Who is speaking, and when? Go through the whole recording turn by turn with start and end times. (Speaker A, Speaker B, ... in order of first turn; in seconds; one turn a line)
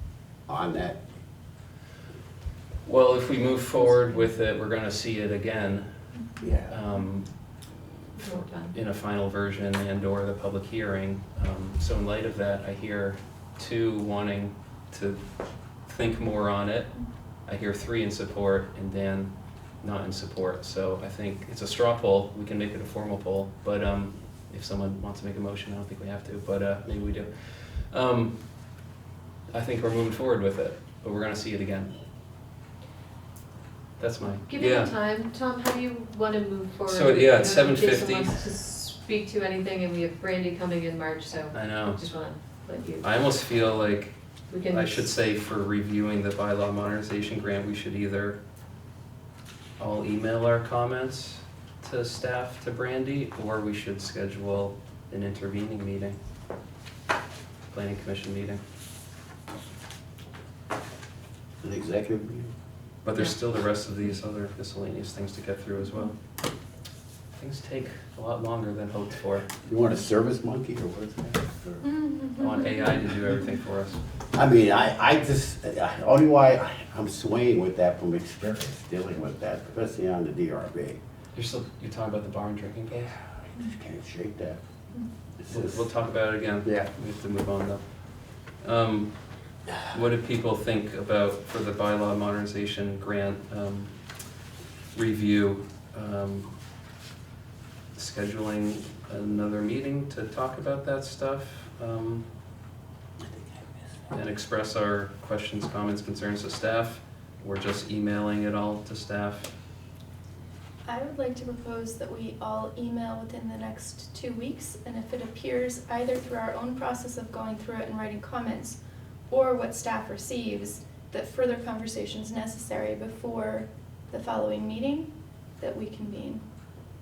Speaker A: 0.5-1.0
Speaker B: 2.9-5.9
Speaker C: 6.2-6.5
Speaker A: 6.4-6.7
Speaker B: 6.7-7.3
Speaker D: 8.2-8.8
Speaker B: 8.2-28.6
Speaker B: 29.5-32.0
Speaker B: 34.0-34.9
Speaker D: 34.5-43.1
Speaker B: 36.9-38.4
Speaker B: 41.5-42.0
Speaker B: 43.0-48.4
Speaker D: 44.5-45.1
Speaker B: 49.8-56.2
Speaker B: 57.7-58.6
Speaker A: 61.6-62.5
Speaker B: 63.0-66.2
Speaker B: 67.4-69.5
Speaker A: 69.6-71.9
Speaker C: 71.8-73.4
Speaker B: 72.4-74.0
Speaker A: 74.3-81.0
Speaker B: 81.3-83.2
Speaker A: 83.5-84.6
Speaker A: 85.4-85.9
Speaker B: 85.5-89.3
Speaker A: 86.6-86.9
Speaker B: 89.9-94.1
Speaker B: 94.9-96.5
Speaker B: 98.0-102.3
Speaker A: 103.2-103.9
Speaker B: 104.1-109.5
Speaker C: 110.8-118.8
Speaker C: 119.3-126.4